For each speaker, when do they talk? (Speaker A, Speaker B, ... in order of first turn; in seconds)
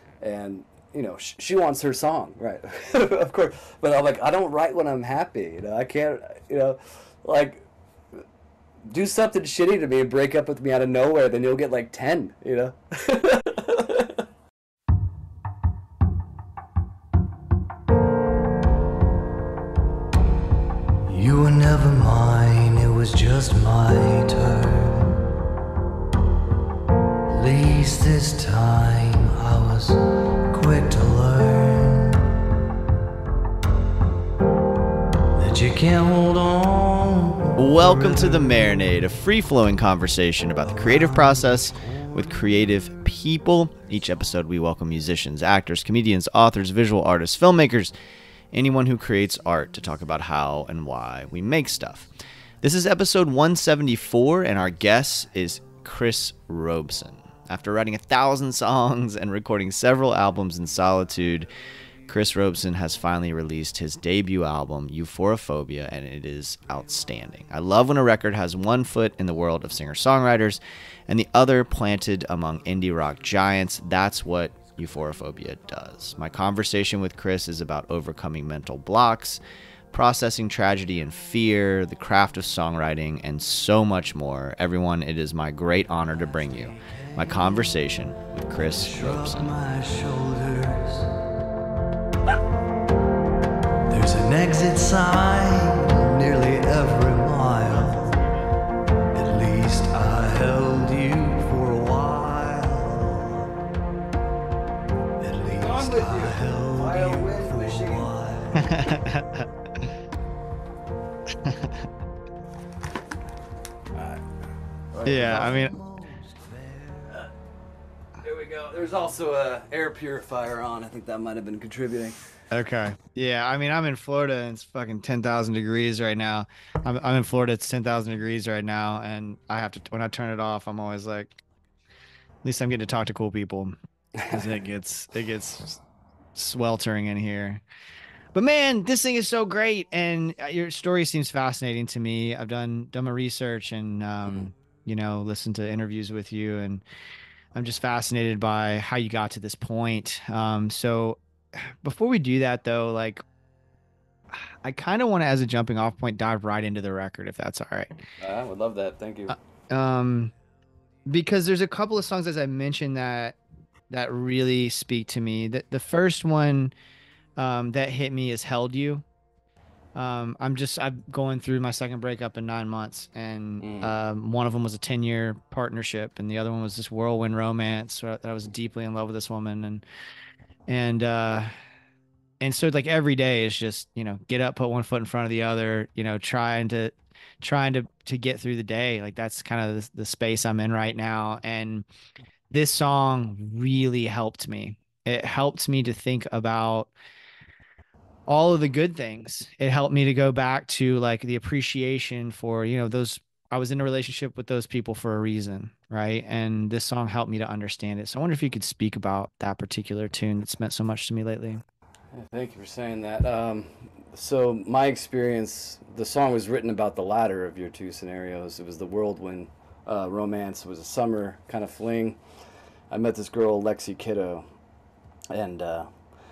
Speaker A: 0.2-7.7, 8.9-14.2, 27.3-27.6, 35.5-36.1, 86.8-87.3, 89.0-91.1, 93.9-95.3, 96.6-97.7, 105.5-108.8, 114.0-114.2, 114.9-115.7, 118.2-122.2, 158.2-159.4, 173.6-173.9, 212.1-222.2, 222.9-224.5, 225.3-225.9
Speaker B: 21.1-25.1, 27.3-30.0, 30.5-32.2, 35.4-38.4, 40.9-41.4, 94.0-98.0, 99.2-103.4, 105.2-108.7, 115.3-117.1
Speaker C: 37.6-47.9, 48.5-52.1, 52.6-61.5, 62.1-79.4, 79.9-89.5, 108.5-109.5, 111.4-111.9, 115.0-115.8, 122.5-131.3, 132.4-133.7, 134.3-135.8, 136.3-137.6, 138.3-146.8, 147.6-153.2, 154.3-158.0, 159.3-160.3, 161.1-163.4, 163.9-166.7, 167.4-169.0, 169.9-179.8, 180.7-181.5, 182.4-191.9, 192.5-196.9, 198.3-211.6